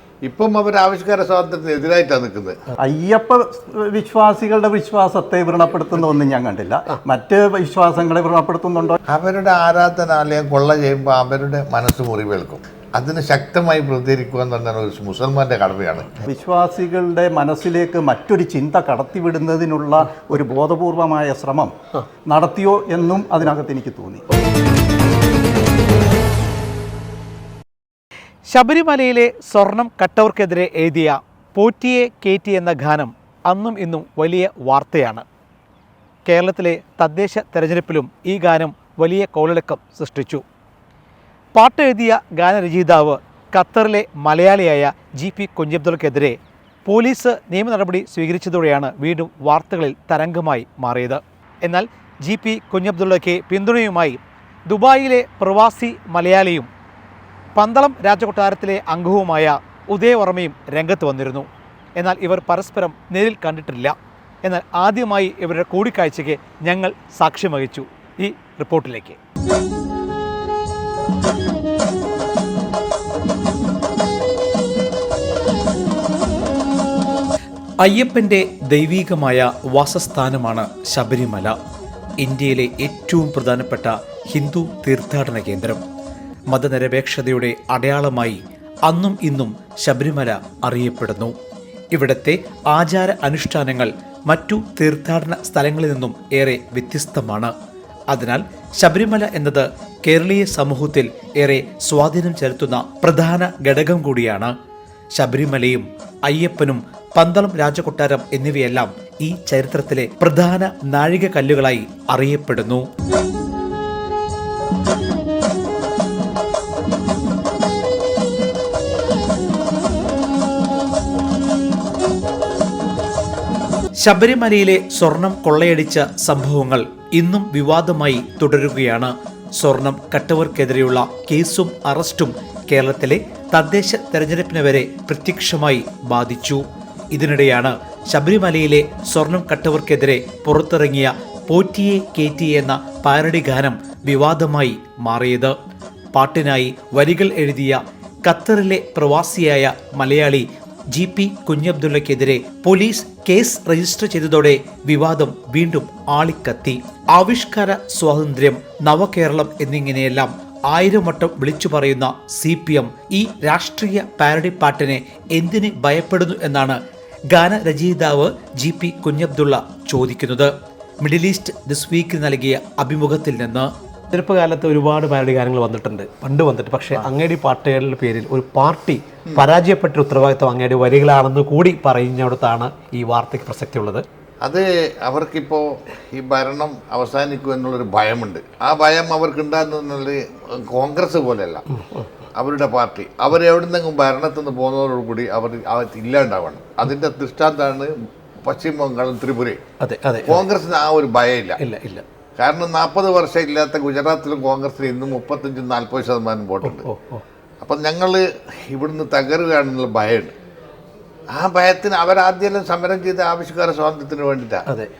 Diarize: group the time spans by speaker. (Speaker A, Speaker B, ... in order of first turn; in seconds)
Speaker A: 0.2-2.6, 9.1-16.2, 184.4-191.6, 192.3-199.6, 200.2-201.6, 202.4-206.9, 207.6-210.3, 211.3-214.7
Speaker B: 2.8-9.0, 16.2-21.7, 22.3-24.2
Speaker C: 28.5-35.2, 36.2-40.4, 41.5-56.7, 57.5-69.2, 77.8-81.5, 82.2-85.8, 86.5-91.3, 91.9-97.5, 98.1-104.5, 105.1-112.9, 124.0-145.5, 146.1-173.7
Speaker D: 174.1-184.0, 199.8-200.4, 201.6-202.0, 206.6-207.2, 214.7-214.9